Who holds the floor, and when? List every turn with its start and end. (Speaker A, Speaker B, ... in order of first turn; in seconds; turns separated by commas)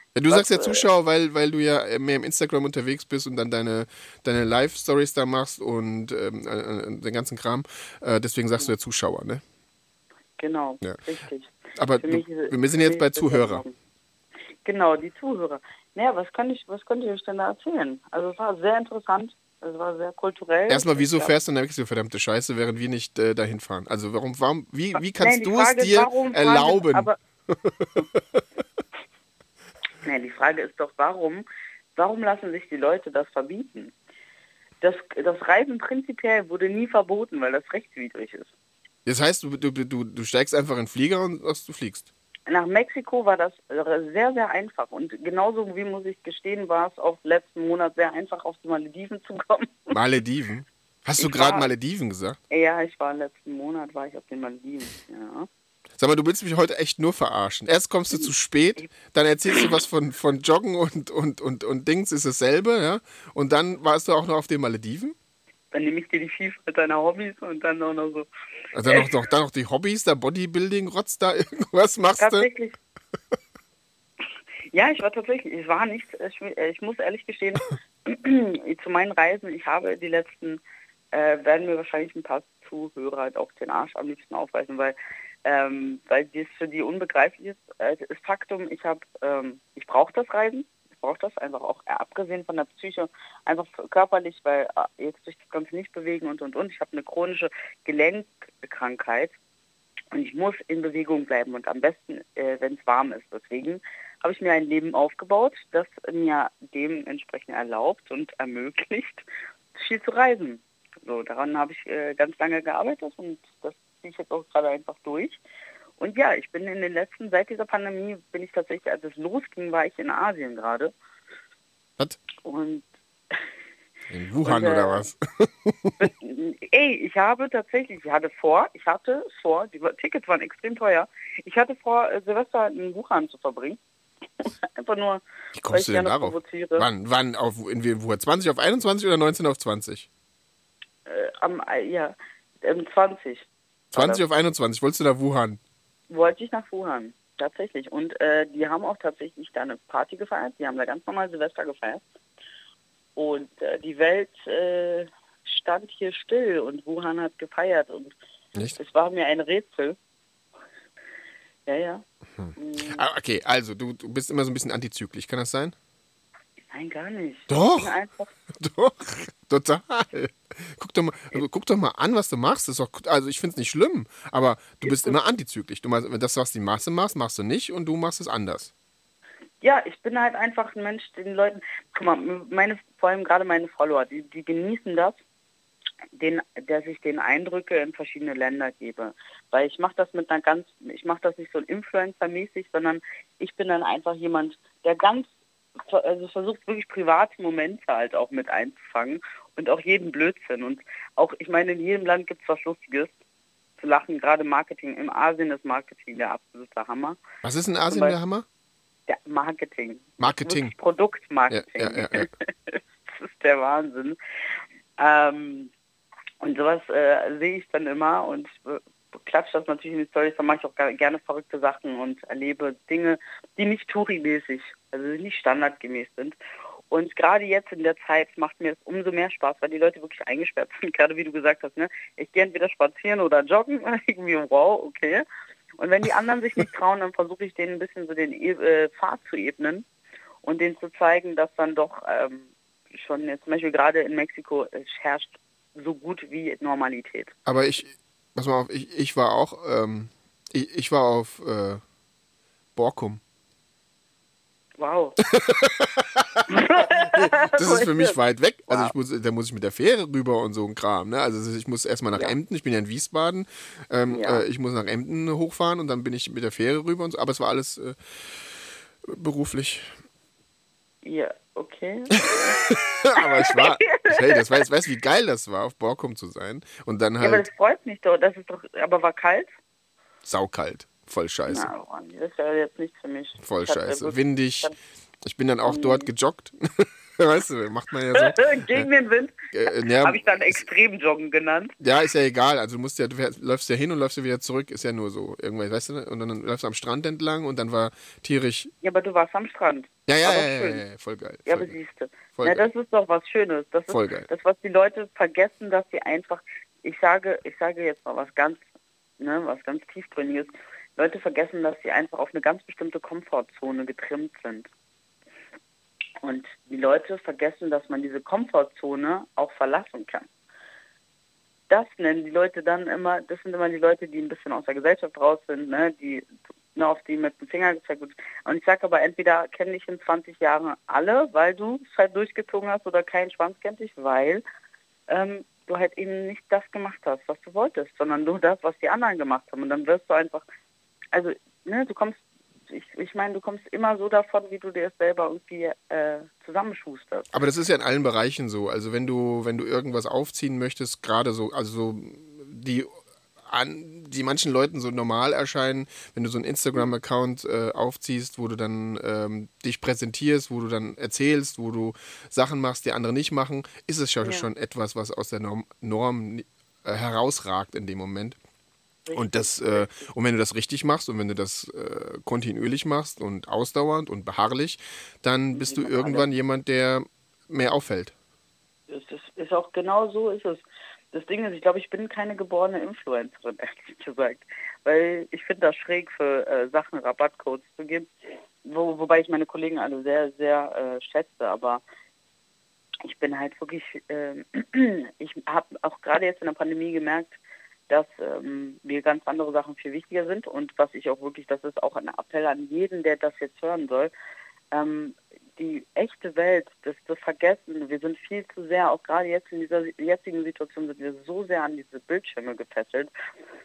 Speaker A: 0.1-9.4, Speaker B: 0.3-0.8, Speaker B: 10.4-13.8, Speaker A: 11.8-13.6, Speaker B: 14.7-21.3, Speaker A: 20.7-28.4, Speaker B: 25.2-27.2, Speaker B: 30.0-31.4, Speaker B: 32.0-33.9, Speaker B: 34.8-38.5, Speaker A: 39.1-42.1, Speaker B: 42.5-50.0, Speaker A: 49.9-52.4, Speaker B: 51.2-51.7, Speaker B: 52.5-55.5, Speaker A: 56.0-65.2, Speaker B: 65.7-68.3, Speaker A: 68.7-72.5, Speaker B: 72.2-72.8, Speaker B: 74.7-80.6, Speaker B: 81.1-99.3, Speaker B: 100.1-109.2, Speaker B: 109.8-115.4, Speaker B: 116.0-120.9, Speaker B: 122.4-123.4, Speaker A: 124.1-126.1, Speaker B: 124.4-125.1, Speaker B: 126.0-133.8, Speaker B: 134.4-136.9, Speaker A: 135.6-140.1, Speaker B: 141.1-144.2, Speaker A: 143.9-145.6, Speaker B: 146.1-152.1, Speaker B: 153.2-158.1, Speaker B: 158.8-160.0, Speaker B: 161.7-162.0, Speaker A: 162.4-165.8, Speaker B: 162.6-163.0, Speaker B: 166.7-168.3, Speaker A: 167.5-167.9, Speaker A: 168.5-178.7, Speaker B: 174.8-175.2, Speaker B: 179.6-185.2, Speaker B: 186.2-203.1, Speaker B: 203.8-207.2, Speaker A: 207.4-208.4, Speaker B: 207.9-208.2, Speaker B: 209.1-214.2, Speaker A: 210.2-210.7, Speaker A: 211.5-212.3, Speaker B: 215.0-215.7, Speaker B: 216.4-226.4, Speaker B: 226.9-235.2, Speaker B: 235.8-239.9, Speaker B: 240.4-247.3, Speaker A: 247.5-251.8, Speaker A: 252.8-253.2, Speaker B: 254.8-255.2, Speaker A: 255.3-269.9, Speaker B: 256.5-258.2, Speaker B: 264.1-264.4, Speaker B: 271.0-272.6, Speaker A: 272.4-277.5, Speaker B: 273.2-274.5, Speaker B: 277.2-279.5, Speaker A: 280.2-281.7, Speaker B: 281.5-284.8, Speaker A: 283.4-284.7, Speaker A: 285.2-288.9, Speaker B: 285.6-286.1, Speaker B: 288.2-291.8, Speaker A: 289.5-290.7, Speaker A: 291.8-298.7, Speaker B: 298.8-300.8, Speaker A: 300.1-301.8, Speaker B: 301.5-308.6, Speaker A: 302.3-302.7, Speaker A: 303.9-304.3, Speaker B: 309.2-314.7, Speaker B: 316.2-320.3, Speaker B: 321.7-334.4, Speaker B: 335.1-340.4, Speaker B: 341.1-347.4, Speaker A: 347.3-352.9, Speaker A: 353.5-368.4, Speaker B: 364.2-364.5, Speaker B: 369.1-370.1, Speaker A: 369.1-378.1, Speaker B: 375.5-376.3, Speaker B: 378.9-388.1, Speaker B: 388.6-391.8, Speaker B: 393.1-397.4, Speaker B: 397.9-404.1, Speaker B: 404.7-413.1